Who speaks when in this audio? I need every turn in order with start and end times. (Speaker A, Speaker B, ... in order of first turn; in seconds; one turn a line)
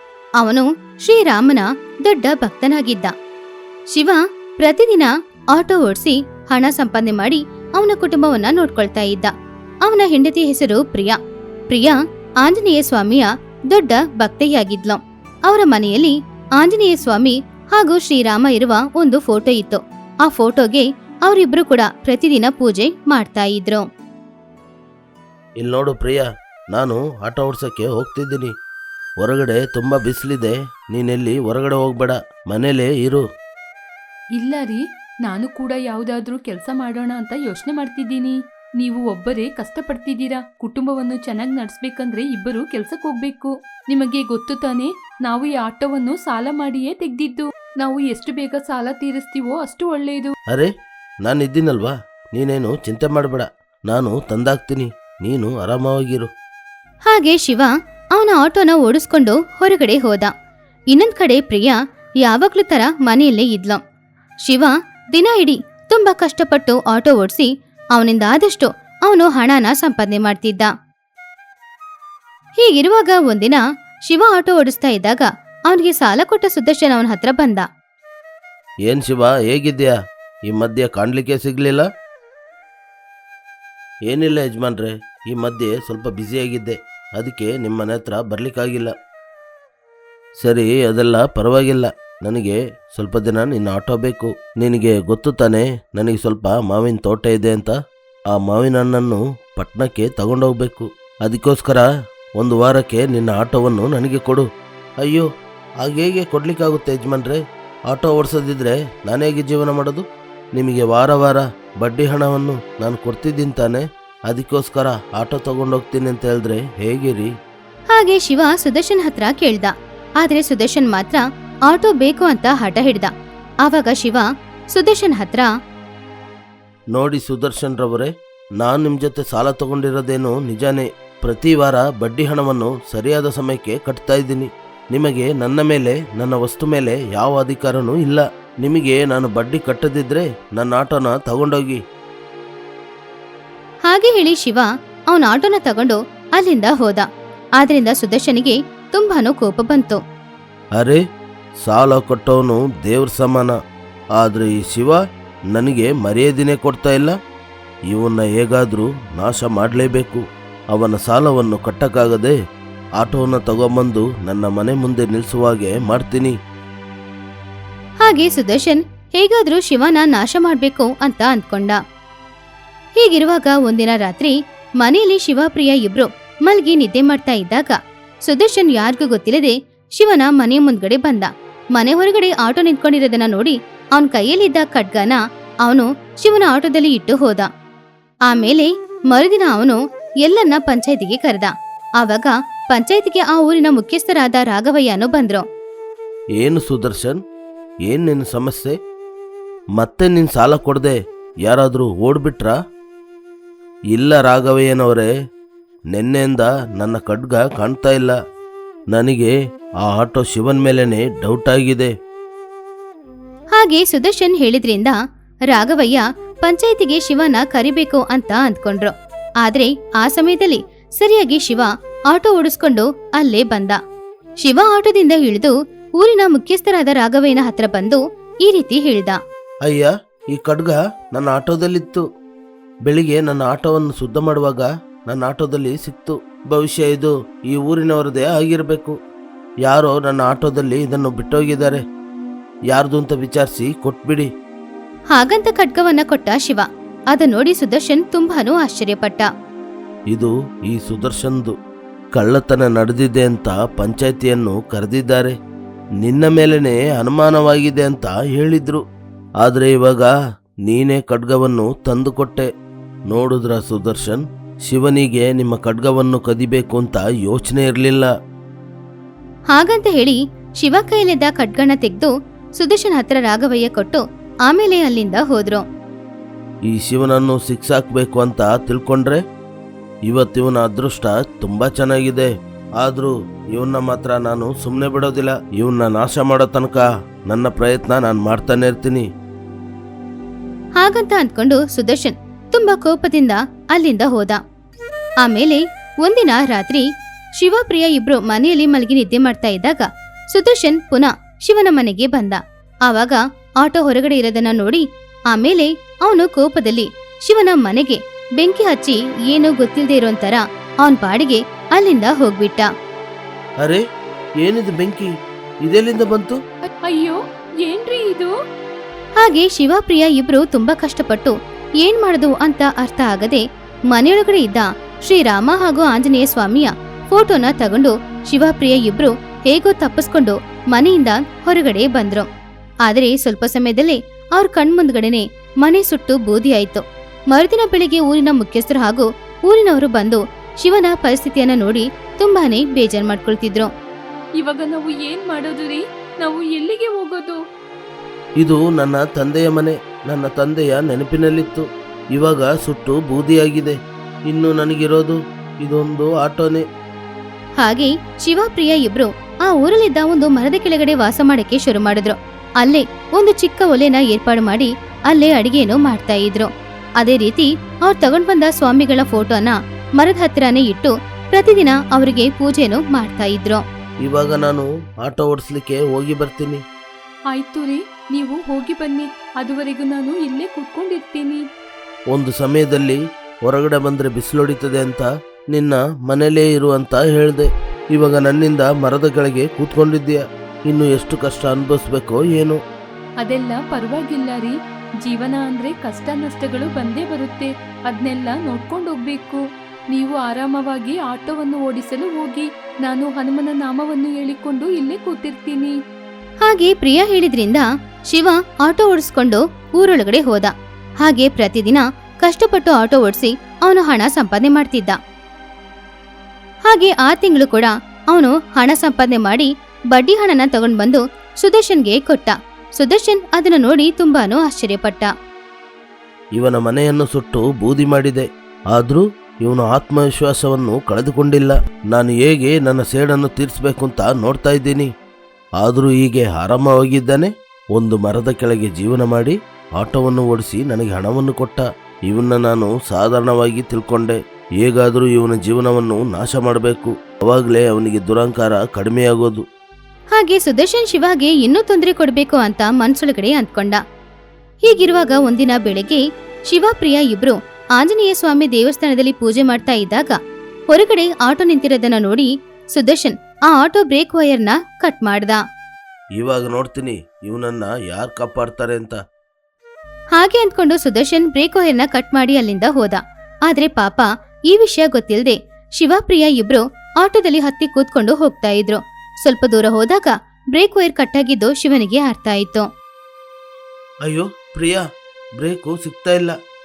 Speaker A: 0.4-3.1
Speaker A: 3.9-9.3
Speaker A: 9.8-11.2
Speaker A: 11.7-23.8
Speaker B: 25.6-28.5
Speaker B: 29.2-33.2
Speaker C: 34.3-50.3
Speaker B: 51.2-56.3
Speaker A: 57.1-60.3
Speaker A: 60.9-61.7
Speaker A: 62.2-63.8
Speaker A: 64.4-70.7
Speaker A: 72.6-77.7
Speaker B: 78.9-80.0
Speaker B: 80.5-81.8
Speaker B: 84.1-88.9
Speaker B: 90.4-97.8
Speaker B: 98.3-101.9
Speaker B: 102.4-104.4
Speaker B: 105.8-110.0
Speaker B: 110.5-117.3
Speaker A: 117.9-123.1
Speaker A: 123.6-125.5
Speaker B: 126.9-141.8
Speaker A: 143.9-147.1
Speaker A: 147.6-150.0
Speaker B: 151.6-153.5
Speaker B: 154.2-155.0
Speaker B: 155.5-157.1
Speaker B: 157.9-160.2
Speaker B: 160.7-162.3
Speaker B: 163.0-166.3
Speaker A: 168.0-171.8
Speaker A: 173.0-187.5
Speaker A: 188.3-195.4
Speaker B: 196.4-197.2
Speaker B: 197.9-198.8
Speaker B: 199.8-202.6
Speaker B: 203.9-205.1
Speaker B: 205.9-208.1
Speaker B: 208.9-209.3
Speaker B: 209.8-211.9
Speaker A: 213.6-214.9
Speaker A: 215.5-223.8
Speaker A: 224.4-229.2
Speaker B: 229.7-232.0
Speaker B: 232.8-238.9
Speaker B: 239.6-241.8
Speaker B: 242.7-244.3
Speaker A: 245.1-249.3
Speaker B: 250.1-251.5
Speaker B: 252.2-255.3
Speaker B: 256.0-258.8
Speaker B: 259.4-260.1
Speaker B: 260.6-262.5
Speaker B: 263.1-268.1
Speaker A: 269.5-275.6
Speaker B: 276.7-279.2
Speaker B: 280.1-289.0
Speaker A: 290.8-294.4
Speaker A: 295.2-296.8
Speaker A: 297.4-312.7
Speaker B: 314.4-315.1
Speaker B: 315.6-316.4
Speaker C: 316.8-318.3
Speaker A: 319.2-332.3
Speaker A: 332.9-343.7
Speaker C: 344.4-347.4
Speaker B: 348.4-353.7
Speaker B: 354.3-356.6
Speaker A: 357.6-373.6
Speaker B: 374.0-376.6
Speaker C: 377.3-381.4
Speaker B: 382.1-392.6
Speaker C: 393.2-399.4
Speaker C: 399.9-405.7
Speaker A: 406.4-415.0
Speaker A: 416.7-425.1
Speaker B: 426.4-434.9
Speaker B: 435.6-449.4
Speaker A: 450.1-453.8
Speaker A: 454.6-460.2
Speaker A: 460.7-465.4
Speaker B: 466.2-469.0
Speaker A: 470.2-482.7
Speaker B: 484.0-484.8
Speaker B: 485.4-486.3